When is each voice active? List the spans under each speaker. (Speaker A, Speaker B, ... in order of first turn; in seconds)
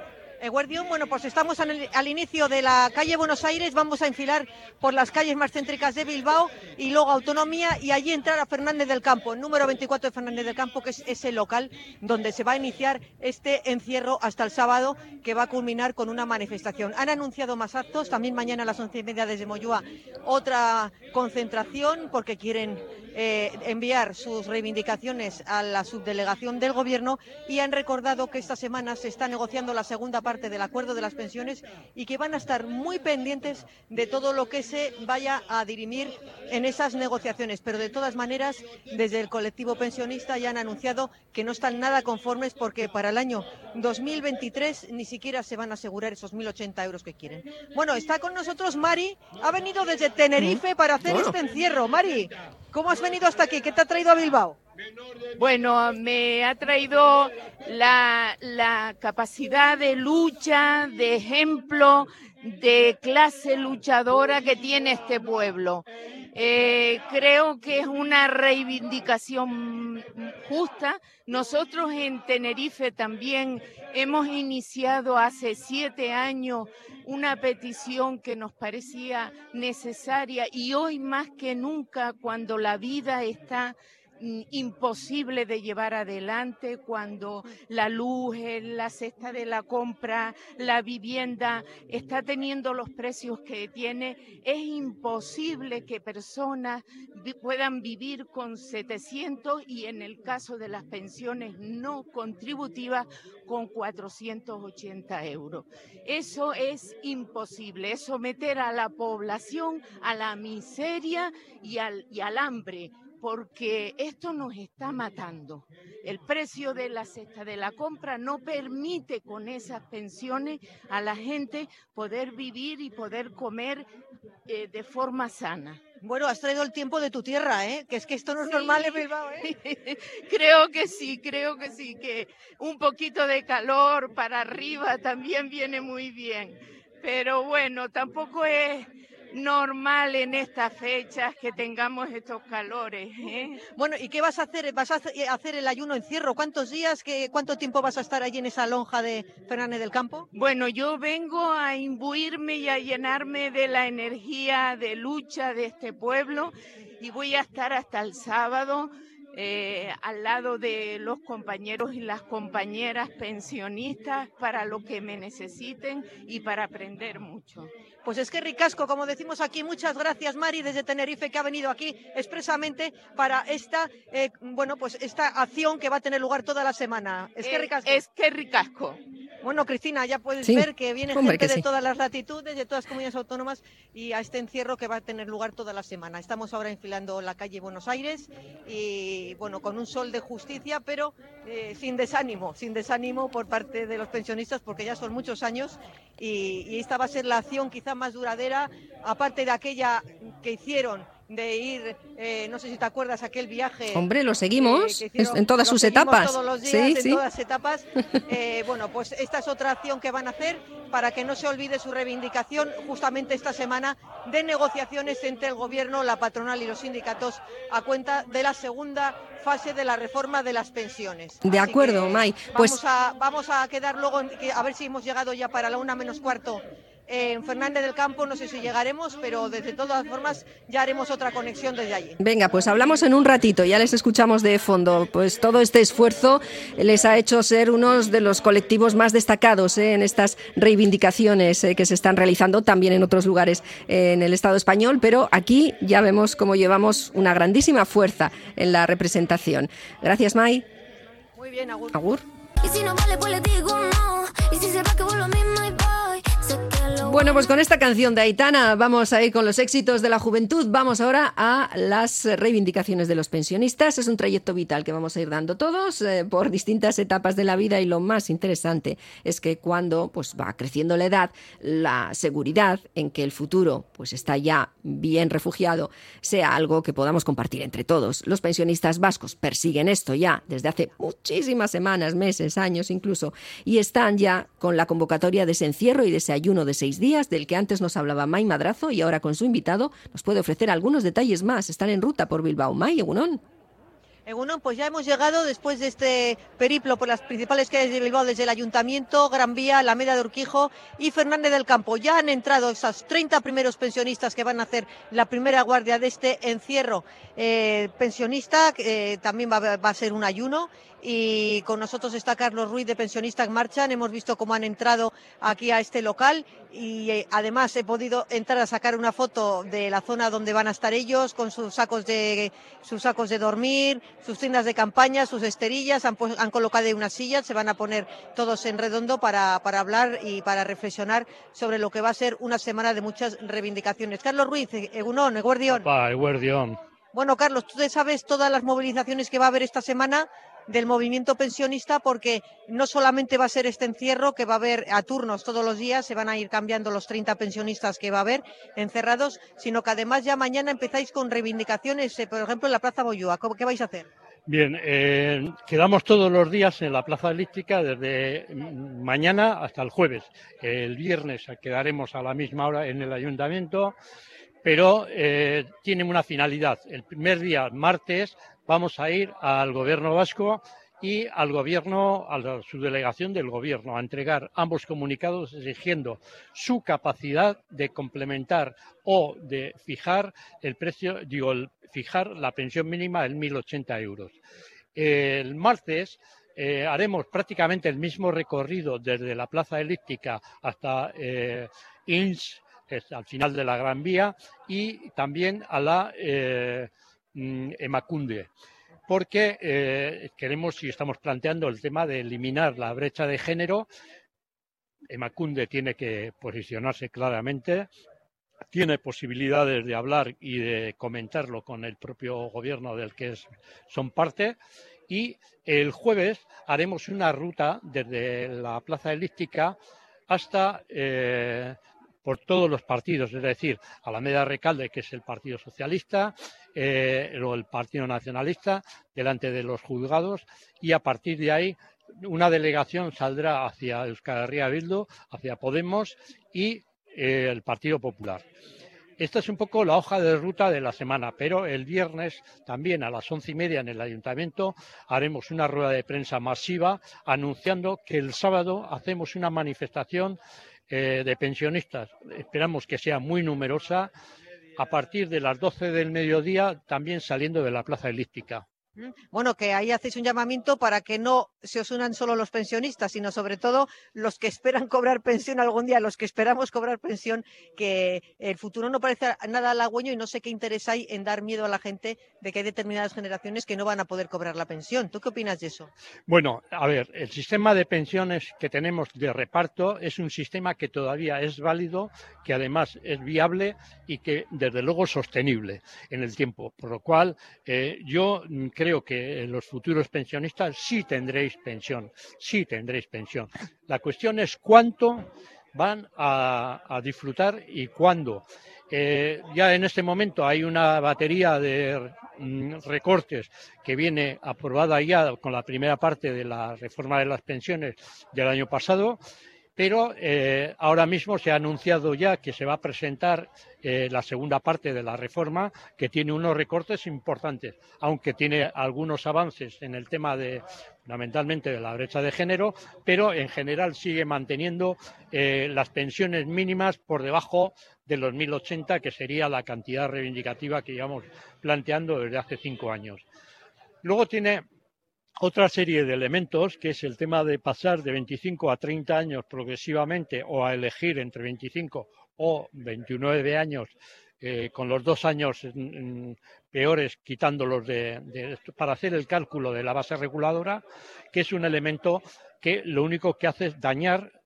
Speaker A: 0.4-54.6, 126.0-129.5, 143.8-150.3, 168.0-178.0, 179.4-232.2, 251.3-251.9, 294.2-335.9, 337.1-354.1, 458.9-475.9
Speaker B: 50.4-51.4, 180.4-181.6, 203.9-207.2, 221.4-222.8, 232.2-250.6, 251.9-252.2, 257.0-293.4
Speaker C: 55.4-123.9, 124.5-125.8, 128.5-143.6, 150.3-167.7, 177.4-179.0
Speaker D: 252.6-257.6
Speaker E: 335.7-336.8, 354.5-363.9, 364.6-384.3, 384.9-398.5, 399.1-403.9, 405.1-407.9, 408.7-414.6, 415.1-419.7, 420.3-438.4, 439.2-450.4, 450.9-454.1, 454.8-458.6, 476.3-509.2, 509.8-533.2, 534.0-534.6, 535.4-550.8, 551.3-554.3